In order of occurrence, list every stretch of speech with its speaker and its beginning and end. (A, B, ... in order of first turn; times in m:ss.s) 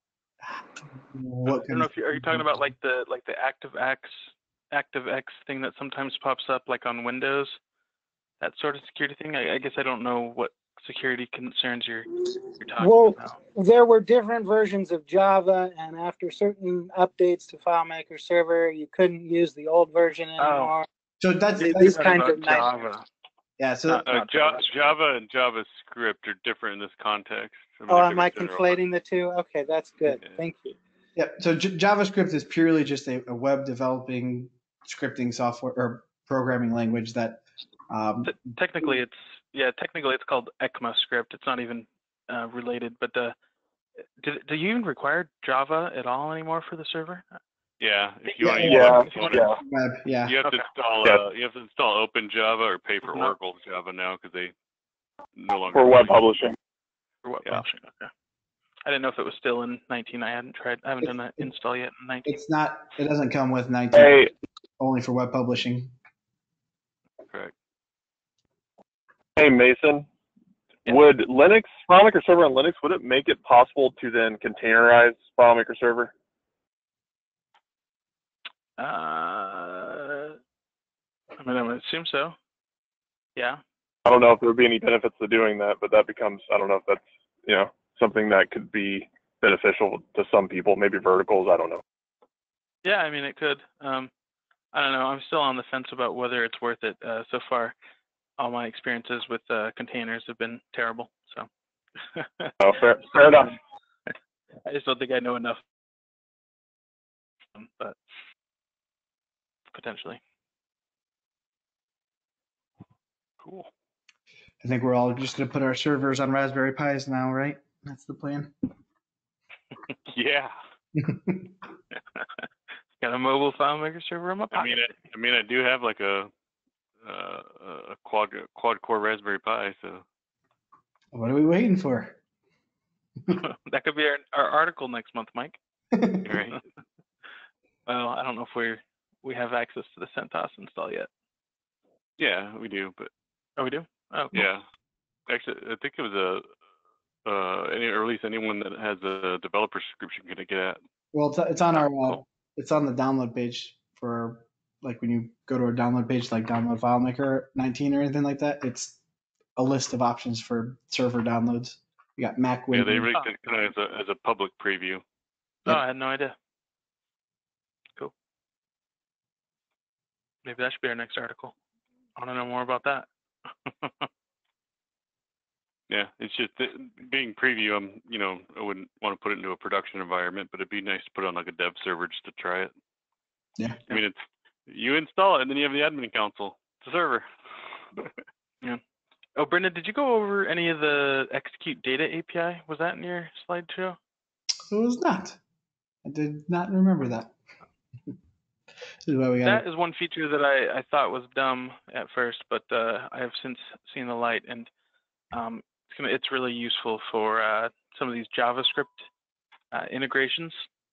0:00.5-0:02.5 A
0:01.5-0:04.2 B
0:04.7-0:07.6 B
0:08.4-0:13.4 B
0:12.8-0:20.9 C
0:20.4-0:20.7 B
0:21.2-0:22.4 A
0:21.6-0:23.1 B
0:21.6-0:22.7 C
0:23.6-0:24.1 A
0:23.9-0:24.9 B
0:24.1-0:28.8 D
0:27.9-0:30.8 C
0:30.1-0:30.4 D
0:31.2-0:38.6 A
0:38.3-0:43.4 B
0:44.2-0:47.2 B
0:47.8-0:49.5 D
0:48.4-0:50.4 A
0:48.6-0:49.6 E
0:48.8-0:49.4 B
0:50.2-0:54.5 D
0:55.4-0:56.2 D
0:55.7-0:56.6 E
0:57.2-0:58.1 B
0:58.8-1:02.4 B
1:01.0-1:01.5 A
1:02.2-1:04.2 A
1:03.9-1:04.3 E
1:04.8-1:05.9 A
1:07.3-1:07.5 D
1:09.4-1:10.1 E
1:10.9-1:16.1 E
1:18.8-1:20.4 B
1:21.4-1:22.4 B
1:23.4-1:23.6 B
1:24.0-1:31.8 E
1:32.8-1:34.1 B
1:34.7-1:37.7 B
1:38.4-1:41.5 B
1:42.1-1:42.5 B
1:42.6-1:43.6 E
1:44.6-1:45.6 B
1:47.6-1:48.0 B
1:49.7-1:50.2 B
1:54.6-1:58.5 A
2:00.1-2:00.5 D
2:01.0-2:01.5 A
2:03.0-2:04.9 B
2:04.5-2:06.3 D
2:07.0-2:10.0 D
2:11.1-2:12.2 A
2:13.3-2:15.6 B
2:15.9-2:16.3 A
2:16.2-2:16.6 D
2:17.9-2:21.1 B
2:22.2-2:23.1 D
2:23.6-2:24.4 B
2:24.3-2:24.6 D
2:25.3-2:26.5 D
2:27.2-2:30.8 D
2:31.1-2:39.0 A
2:39.6-2:43.1 A
2:42.7-2:45.0 D
2:45.7-2:46.4 B
2:50.4-2:51.5 B
2:52.2-2:53.1 B
2:53.7-2:54.1 B
2:55.9-3:02.7 D
3:03.6-3:03.8 A
3:03.9-3:07.2 D
3:09.4-3:14.0 B
3:14.7-3:15.4 A
3:16.0-3:17.4 A
3:19.1-3:19.6 A
3:19.4-3:24.7 B
3:25.3-3:29.1 B
3:29.7-3:30.6 B